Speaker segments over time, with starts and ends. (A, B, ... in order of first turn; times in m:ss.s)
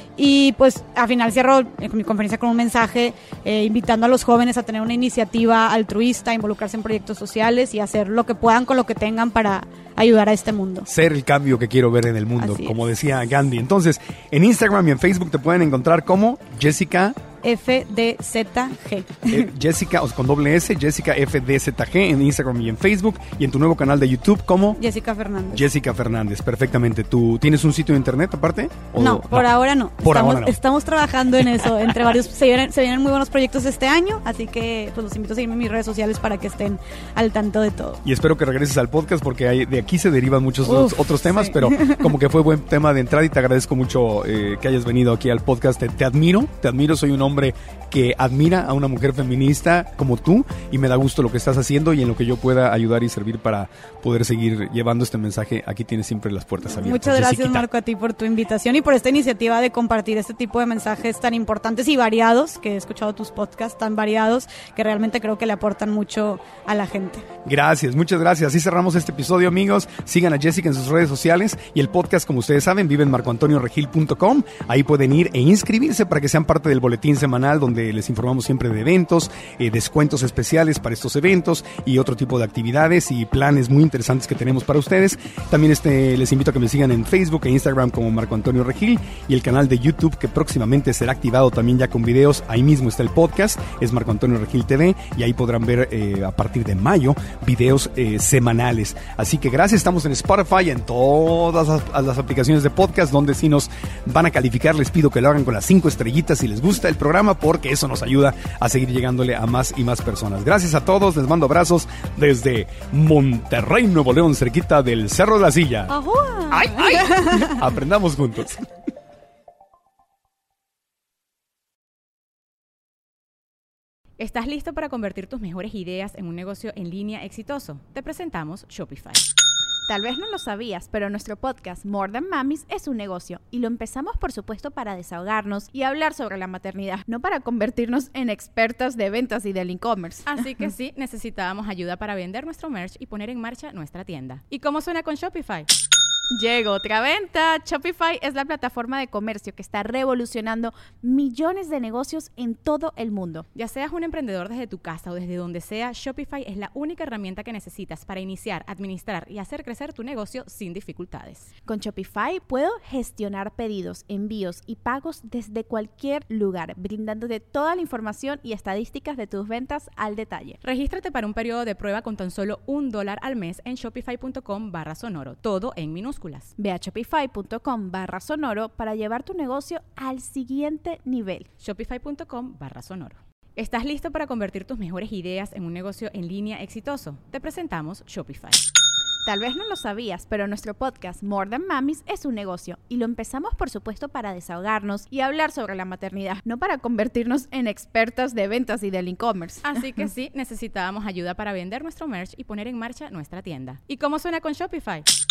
0:00.2-0:10.9 A
0:10.9-0:17.2 B
0:12.4-0:12.8 A
0:17.4-0:19.5 A
0:19.3-0:24.8 B
0:24.8-0:25.7 A
0:25.5-0:30.5 B
0:29.0-0:38.0 A
0:31.6-0:31.9 B
0:38.0-0:57.6 B
0:40.6-0:42.1 A
0:56.7-1:07.3 A
1:07.5-1:55.9 B
1:55.9-1:57.6 A
1:56.5-1:58.6 B
2:04.2-2:09.2 C
2:09.9-2:20.4 D
2:20.3-2:25.7 C
2:26.3-2:33.5 D
2:33.6-2:41.5 C
2:41.6-2:50.6 D
2:50.6-2:56.5 C
2:56.6-3:01.5 D
3:01.6-3:08.6 C
3:09.2-3:19.7 D
3:19.6-3:25.1 C